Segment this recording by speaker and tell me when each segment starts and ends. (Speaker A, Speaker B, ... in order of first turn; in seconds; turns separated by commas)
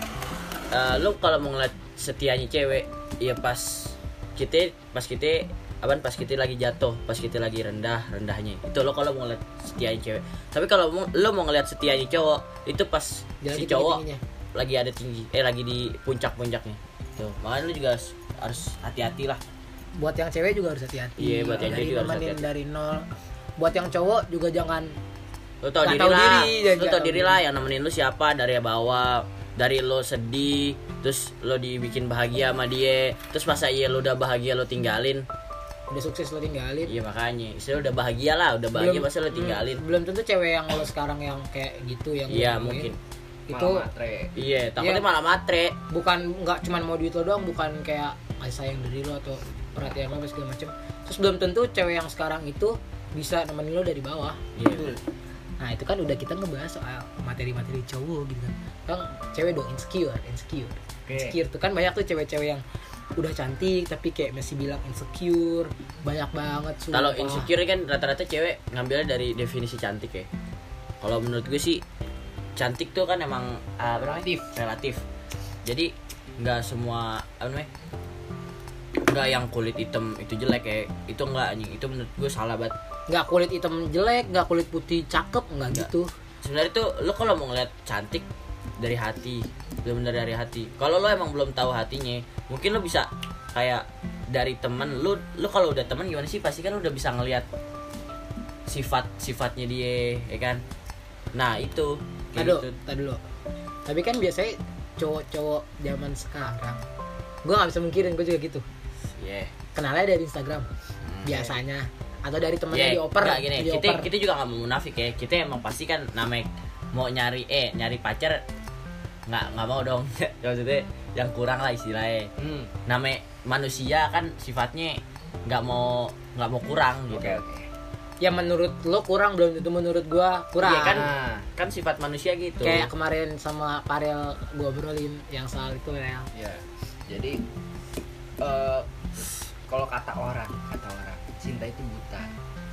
Speaker A: 0.7-14.0, Speaker B: 13.4-14.2, Speaker A: 14.5-19.4, Speaker B: 20.0-23.1, Speaker A: 21.2-22.5, Speaker B: 23.6-24.9, Speaker A: 25.6-35.2, Speaker B: 25.8-27.4, Speaker B: 35.9-36.9, Speaker A: 36.9-39.8, Speaker B: 38.7-42.9, Speaker A: 42.3-43.0, Speaker B: 43.5-43.8, Speaker C: 43.5-44.3, Speaker A: 44.3-45.8, Speaker B: 44.8-45.0, Speaker B: 45.9-54.4, Speaker A: 54.5-55.0, Speaker C: 54.7-55.0, Speaker B: 55.6-62.6, Speaker A: 61.1-61.3, Speaker B: 63.2-67.5, Speaker A: 66.9-70.3, Speaker A: 71.0-71.8, Speaker A: 72.6-75.0, Speaker B: 74.0-74.4, Speaker A: 75.7-77.7, Speaker A: 79.1-82.7, Speaker B: 83.1-86.1, Speaker A: 86.4-88.2, Speaker A: 88.8-97.5, Speaker A: 98.7-100.6, Speaker A: 101.3-102.7, Speaker B: 102.3-103.2, Speaker B: 103.8-106.8, Speaker B: 107.4-108.6, Speaker A: 109.2-109.5, Speaker B: 109.7-110.7, Speaker A: 111.0-111.6, Speaker B: 111.2-114.1, Speaker A: 112.7-118.4, Speaker A: 119.3-122.3, Speaker C: 122.4-122.7, Speaker A: 122.9-127.4, Speaker C: 127.1-127.7, Speaker B: 128.2-131.0, Speaker A: 130.6-132.9, Speaker C: 130.8-131.4, Speaker B: 132.6-136.3, Speaker C: 136.3-137.4, Speaker C: 138.4-142.3